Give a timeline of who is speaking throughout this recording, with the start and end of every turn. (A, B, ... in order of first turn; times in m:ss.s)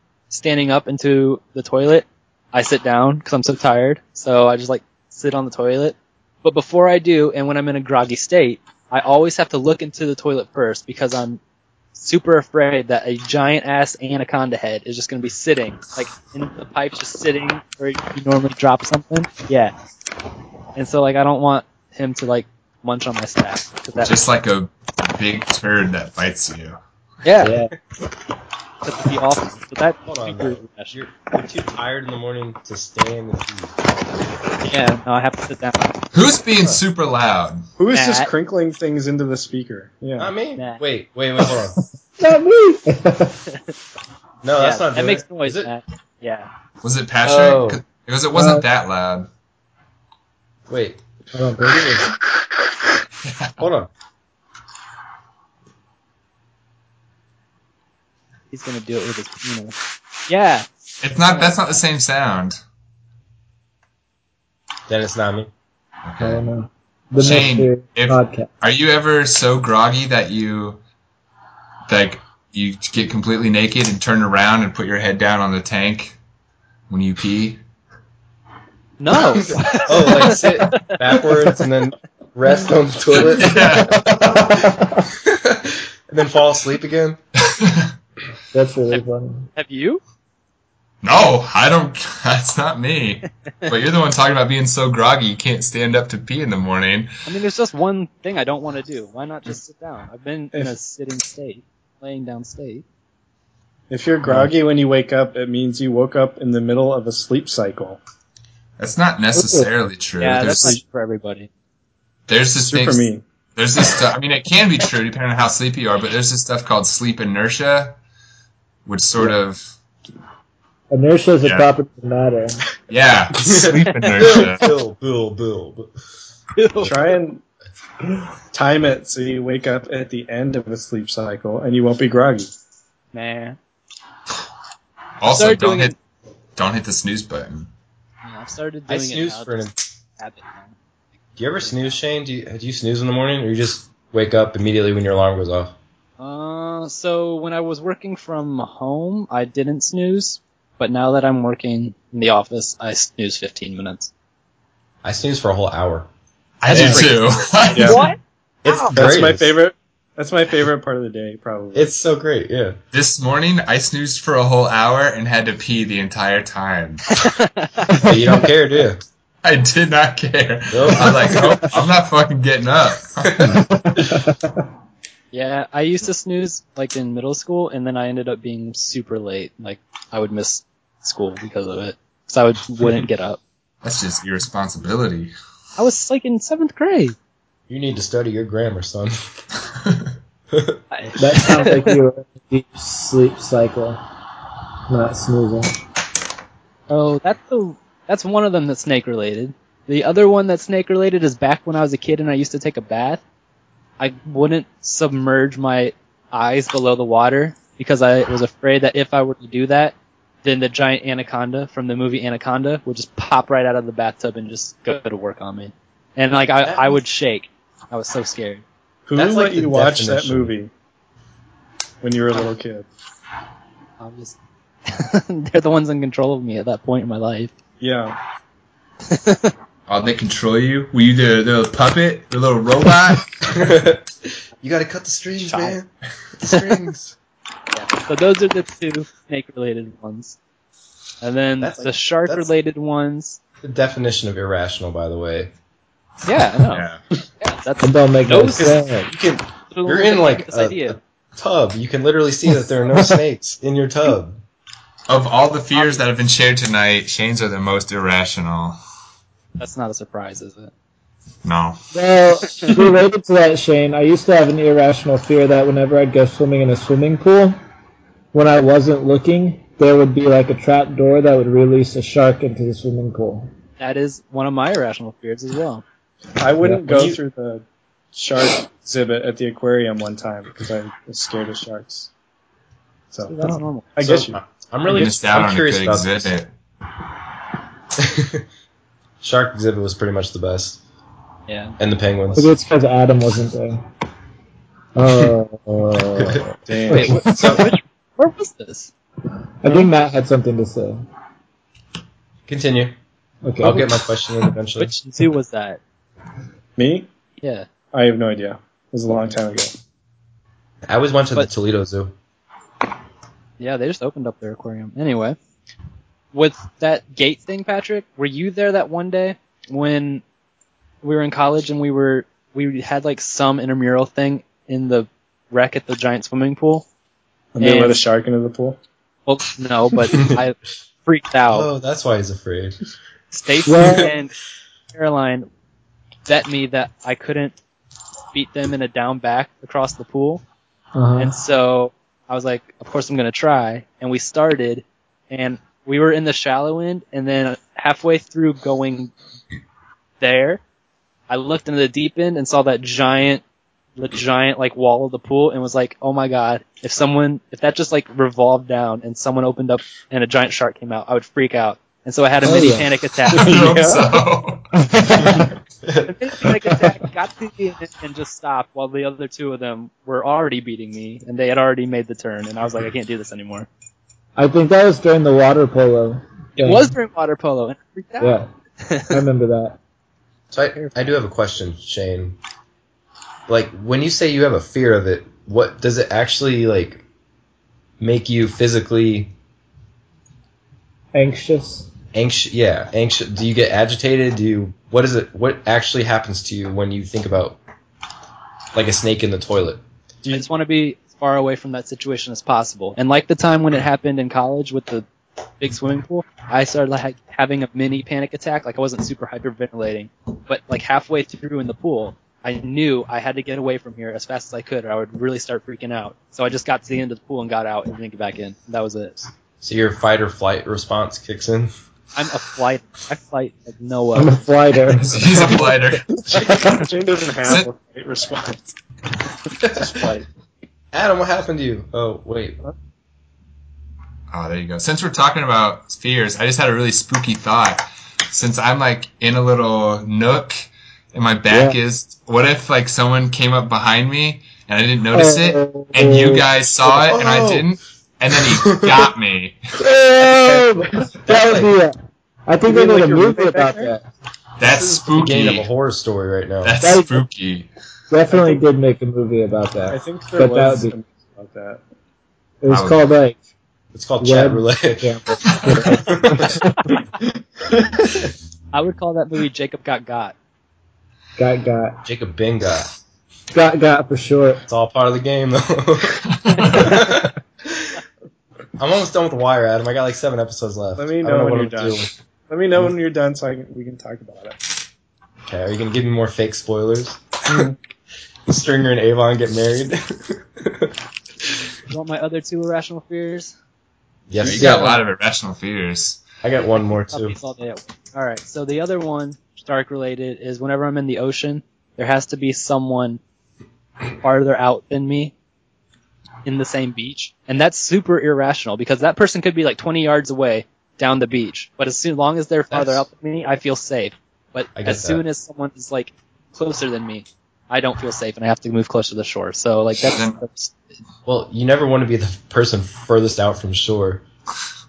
0:00.3-0:11.4 A
0:12.0-0:19.7 A
0:20.8-0:24.3 A
0:24.0-0:26.8 B
0:27.2-0:27.6 A
0:27.4-0:27.7 C
0:27.4-0:27.7 D
0:28.8-0:31.0 A
0:30.1-0:33.8 C
0:34.7-0:35.9 A
0:36.1-0:37.7 B
0:37.8-0:40.3 E
0:37.9-0:38.3 A
0:40.2-0:41.8 C
0:40.6-0:40.8 A
0:42.2-0:43.4 D
0:44.4-0:45.7 C
0:44.6-0:46.5 A
0:46.8-0:49.3 B
0:47.3-0:47.7 A
0:47.3-0:47.8 C
0:48.3-0:48.6 D
0:50.7-0:51.0 C
0:51.3-0:52.1 D
0:53.6-0:53.9 C
0:58.5-0:59.8 A
1:00.3-1:01.8 A
1:01.0-1:02.6 B
1:04.9-1:05.5 C
1:06.0-1:06.4 B
1:06.2-1:08.5 D
1:07.2-1:10.8 B
1:11.9-1:16.2 B
1:16.9-1:17.6 B
1:19.0-1:21.0 A
1:19.9-1:23.9 C
1:23.1-1:24.0 B
1:23.7-1:25.0 D
1:25.2-1:27.2 C
1:27.5-1:27.9 B
1:28.5-1:29.5 D
1:29.6-1:30.0 A
1:31.0-1:37.1 B
1:37.3-1:42.8 A
1:43.9-1:48.0 E
1:48.8-1:50.8 B
1:49.4-1:49.7 D
1:50.2-1:51.5 A
1:52.3-1:58.0 B
1:52.6-1:53.2 E
1:58.9-1:59.7 B
2:00.9-2:02.6 D
2:02.9-2:04.7 B
2:03.4-2:05.9 C
2:04.0-2:04.3 A
2:06.6-2:07.2 A
2:06.8-2:07.4 E
2:08.5-2:12.5 E
2:13.1-2:13.6 A
2:15.2-2:16.0 B
2:15.3-2:16.0 A
2:16.6-2:17.7 B
2:18.2-2:19.7 A
2:18.9-2:19.8 C
2:20.2-2:20.8 A
2:21.4-2:25.8 C
2:21.6-2:22.0 A
2:26.2-2:34.1 A
2:35.0-2:36.1 C
2:36.6-2:38.0 B
2:36.7-2:38.2 A
2:36.7-2:37.1 C
2:37.7-2:38.0 E
2:38.6-2:39.6 C
2:38.7-2:39.0 A
2:38.9-2:41.9 E
2:41.7-2:42.8 C
2:42.9-2:47.3 B
2:47.2-2:48.0 A
2:48.0-2:49.0 C
2:49.4-2:53.6 B
2:50.7-2:51.7 C
2:53.3-2:54.0 C
2:53.5-2:54.4 D
2:55.3-3:03.4 A
3:03.8-3:05.3 B
3:05.8-3:07.2 A
3:07.7-3:09.1 C
3:10.5-3:10.8 C
3:10.9-3:12.0 A
3:11.2-3:14.0 D
3:14.9-3:15.8 D
3:16.9-3:23.2 A
3:24.0-3:38.6 A
3:36.6-3:37.0 C
3:39.1-3:40.7 E
3:39.2-3:40.6 C
3:42.0-3:42.9 E
3:44.0-3:47.5 A
3:47.8-3:48.2 E
3:49.1-3:49.5 A
3:49.9-3:53.3 B
3:53.5-3:57.2 C
3:55.4-3:55.8 A
3:57.7-4:00.4 A
4:01.2-4:03.4 A
4:01.6-4:02.5 C
4:03.6-4:05.5 C
4:06.3-4:06.9 A
4:06.7-4:07.0 B
4:07.4-4:08.7 A
4:07.8-4:09.1 D
4:08.6-4:14.4 C
4:09.7-4:11.0 A
4:15.1-4:18.8 B
4:15.7-4:16.0 A
4:19.6-4:20.7 A
4:21.4-4:21.8 B
4:21.9-4:27.6 D
4:28.3-4:33.5 D
4:33.8-4:35.8 A
4:36.4-4:42.1 E
4:36.9-4:37.2 C
4:43.3-4:44.1 A
4:44.0-4:44.4 E
4:44.0-4:46.4 C
4:44.9-4:46.5 B
4:48.0-4:48.4 C
4:49.2-4:50.8 C
4:51.5-4:51.8 A
4:51.8-4:52.5 C
4:52.3-4:53.8 D
4:55.0-4:57.6 D
4:56.2-4:56.4 C
4:56.7-4:57.6 E
4:56.9-4:58.9 A
4:56.9-4:57.6 C
4:59.6-5:01.0 D
5:02.5-5:03.0 C
5:03.4-5:03.9 D
5:03.6-5:04.9 C
5:04.8-5:05.8 A
5:06.8-5:07.1 E
5:07.4-5:07.7 A
5:07.9-5:09.7 E
5:10.9-5:12.2 C
5:13.6-5:15.4 A
5:16.3-5:20.2 A
5:21.0-5:26.9 A
5:27.6-5:28.8 E
5:27.6-5:28.0 A
5:29.3-5:31.7 A
5:30.1-5:30.4 C
5:31.5-5:32.8 C
5:33.3-5:34.3 A
5:33.7-5:34.1 D
5:34.9-5:35.5 A
5:36.3-5:37.6 A
5:38.3-5:40.4 A
5:41.0-5:41.4 D
5:41.2-5:49.1 A
5:50.2-5:50.6 A
5:51.3-5:53.4 A
5:54.0-6:03.5 A
6:02.4-6:02.9 D
6:03.3-6:04.7 B
6:03.3-6:04.0 E
6:04.8-6:05.5 D
6:06.0-6:13.7 A
6:14.4-6:17.0 D
6:16.6-6:19.2 A
6:18.2-6:18.5 D
6:19.1-6:19.8 D
6:20.5-6:22.4 C
6:23.5-6:27.0 C
6:28.0-6:29.3 C
6:31.1-6:31.9 D
6:32.1-6:37.6 C
6:38.7-6:39.8 C
6:40.3-6:45.1 A
6:45.6-6:59.3 A
6:59.6-7:01.7 C
7:02.2-7:04.4 A
7:04.2-7:05.8 D
7:05.0-7:06.1 B
7:06.3-7:08.6 E
7:06.3-7:06.9 D
7:09.6-7:10.2 E
7:10.9-7:12.6 C
7:14.3-7:29.6 B
7:21.5-7:21.8 D
7:25.1-7:26.5 D
7:26.8-7:27.7 C
7:28.3-7:29.1 C
7:29.8-7:34.0 D
7:30.2-7:30.9 E
7:31.3-7:31.7 C
7:32.6-7:33.9 E
7:34.6-7:35.7 B
7:34.6-7:36.8 C
7:36.6-7:37.7 B
7:36.8-7:37.2 D
7:38.1-7:41.0 D
7:38.3-7:38.6 E
7:39.9-7:41.8 E
7:42.6-7:43.4 D
7:42.7-7:43.1 B
7:43.9-7:46.6 C
7:44.2-7:46.8 D
7:47.6-7:48.0 E
7:48.7-7:50.4 A
7:51.4-7:52.0 D
7:52.0-7:52.9 C
7:53.5-7:54.6 D
7:54.7-7:57.9 C
7:58.8-8:02.1 C
8:01.0-8:04.6 E
8:05.4-8:07.6 C
8:07.5-8:07.8 E
8:08.5-8:10.9 C
8:11.9-8:13.5 A
8:14.3-8:15.0 C
8:14.4-8:16.2 B
8:16.4-8:17.4 C
8:17.1-8:23.2 A
8:24.2-8:25.3 A
8:26.4-8:40.8 A
8:32.7-8:33.0 C
8:34.8-8:35.2 C
8:40.1-8:40.4 B
8:41.3-8:44.2 C